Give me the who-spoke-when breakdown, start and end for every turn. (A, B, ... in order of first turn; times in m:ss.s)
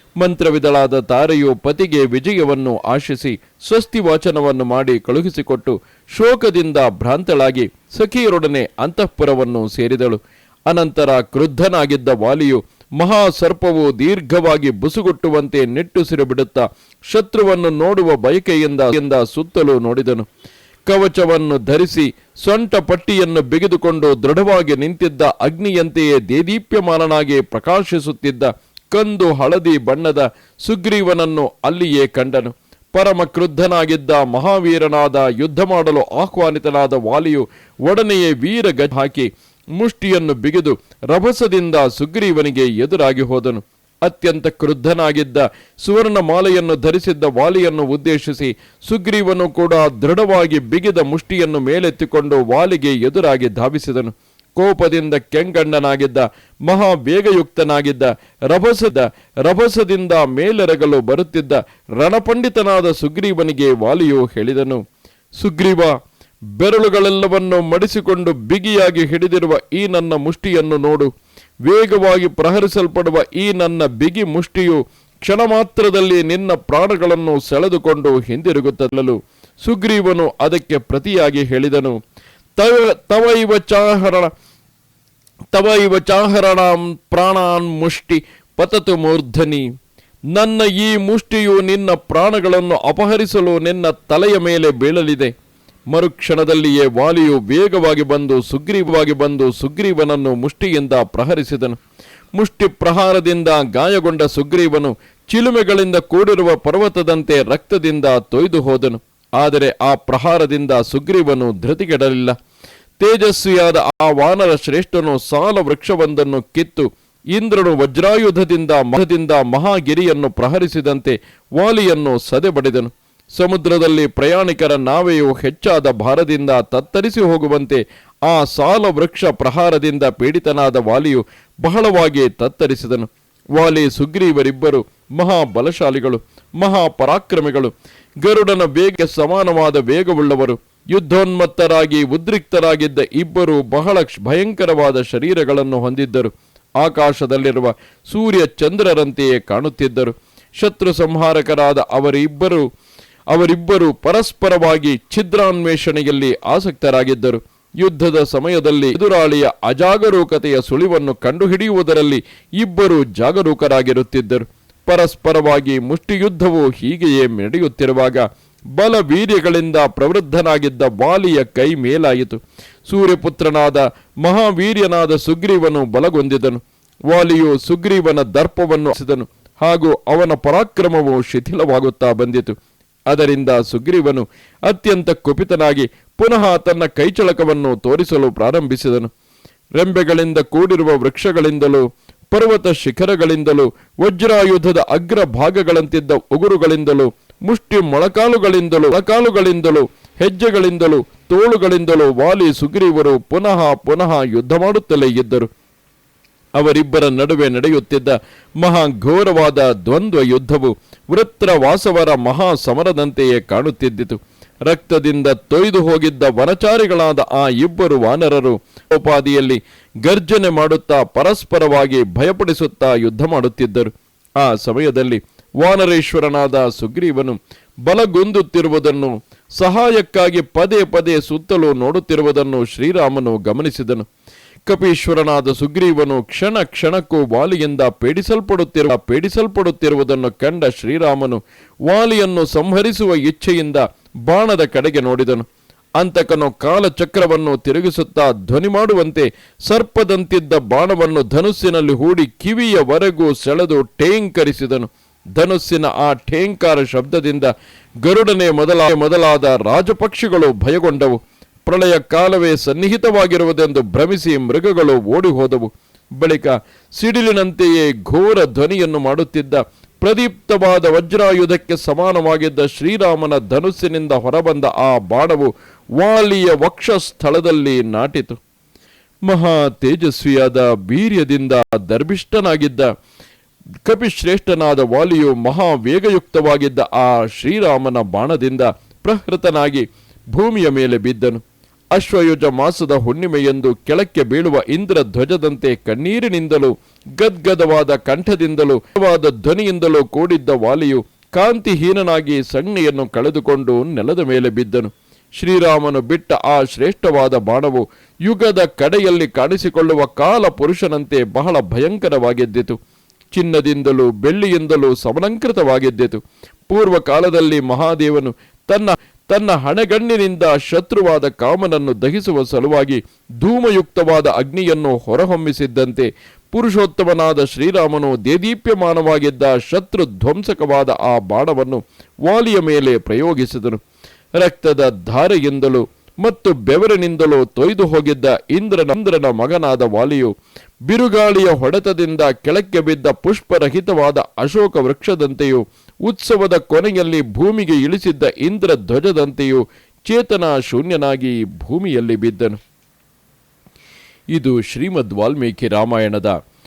0:00.2-0:20.3 A
0:20.9-1:04.8 A
1:05.4-1:05.9 A
1:06.6-1:11.1 A
1:11.6-1:22.0 A
1:22.6-1:24.3 A
1:25.5-1:29.6 A
1:30.3-1:35.3 A
1:35.9-1:41.8 A
1:42.4-1:52.4 A
1:53.0-2:32.6 A
2:33.3-3:02.6 A
3:03.1-3:09.1 A
3:09.8-3:25.5 A
3:26.6-3:54.1 A
3:54.7-4:05.5 A
4:06.0-4:38.4 A
4:39.3-4:42.9 A
4:43.8-4:51.4 A
4:51.9-5:12.8 A
5:13.3-5:33.8 A
5:34.4-5:40.3 A
5:40.9-5:52.6 A
5:54.3-5:56.4 A